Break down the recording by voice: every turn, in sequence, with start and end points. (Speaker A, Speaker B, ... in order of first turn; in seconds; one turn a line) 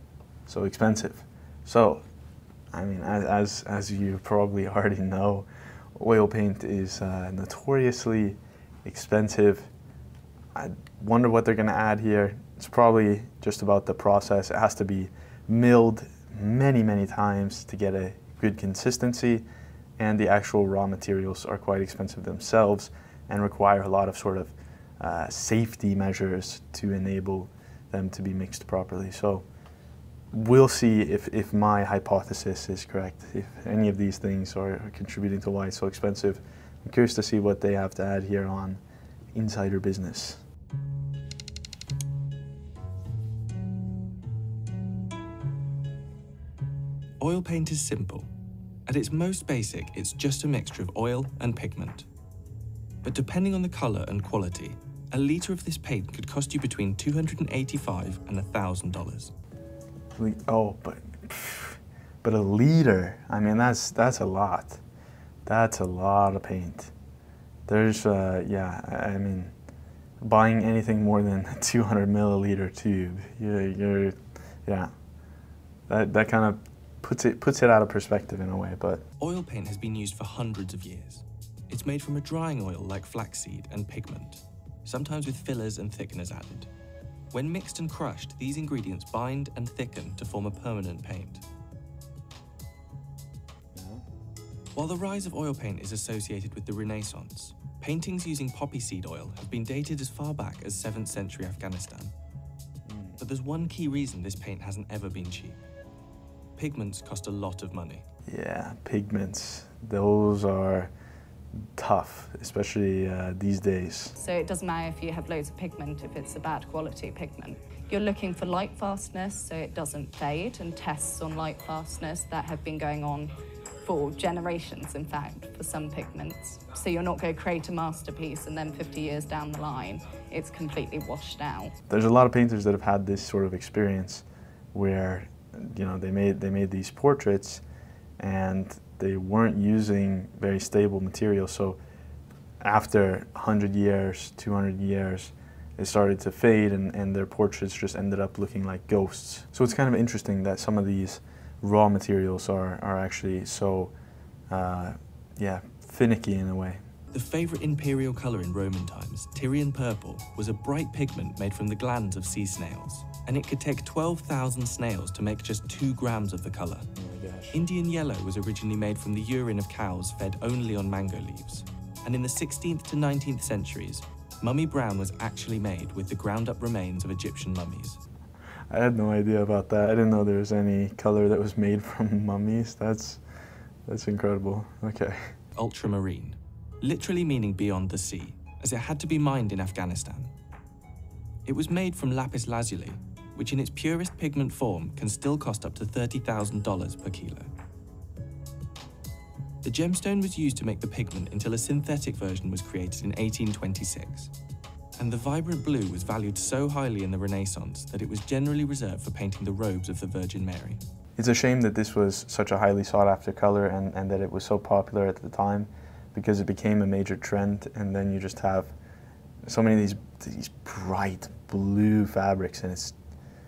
Speaker A: 0.5-2.0
Speaker A: 2.7-9.7
Speaker A: 10.5-19.4
Speaker A: 20.0-29.4
Speaker A: 30.3-38.8
Speaker A: 39.3-40.4
Speaker B: 47.2-48.3
Speaker B: 48.9-52.1
Speaker B: 53.0-59.3
Speaker A: 60.1-64.8
Speaker A: 65.5-66.9
Speaker A: 67.7-69.5
Speaker A: 70.2-74.9
Speaker A: 75.9-79.0
Speaker B: 79.2-86.7
Speaker B: 87.3-91.4
Speaker A: 93.7-94.0
Speaker B: 94.7-102.1
Speaker A: 102.8-103.2
Speaker B: 103.2-105.6
Speaker B: 106.6-108.0
Speaker A: 108.3-110.9
Speaker A: 111.8-114.1
Speaker C: 114.2-131.7
Speaker A: 131.9-137.6
Speaker A: 138.2-141.8
Speaker A: 142.6-153.9
Speaker A: 154.5-156.8
Speaker B: 157.1-166.9
Speaker A: 167.0-167.6
Speaker B: 167.5-178.0
Speaker A: 178.7-183.2
Speaker A: 183.9-185.3
Speaker B: 185.5-190.3
Speaker B: 191.4-197.5
Speaker B: 199.6-204.3
Speaker B: 205.0-210.8
Speaker A: 211.2-218.7
Speaker A: 219.4-222.9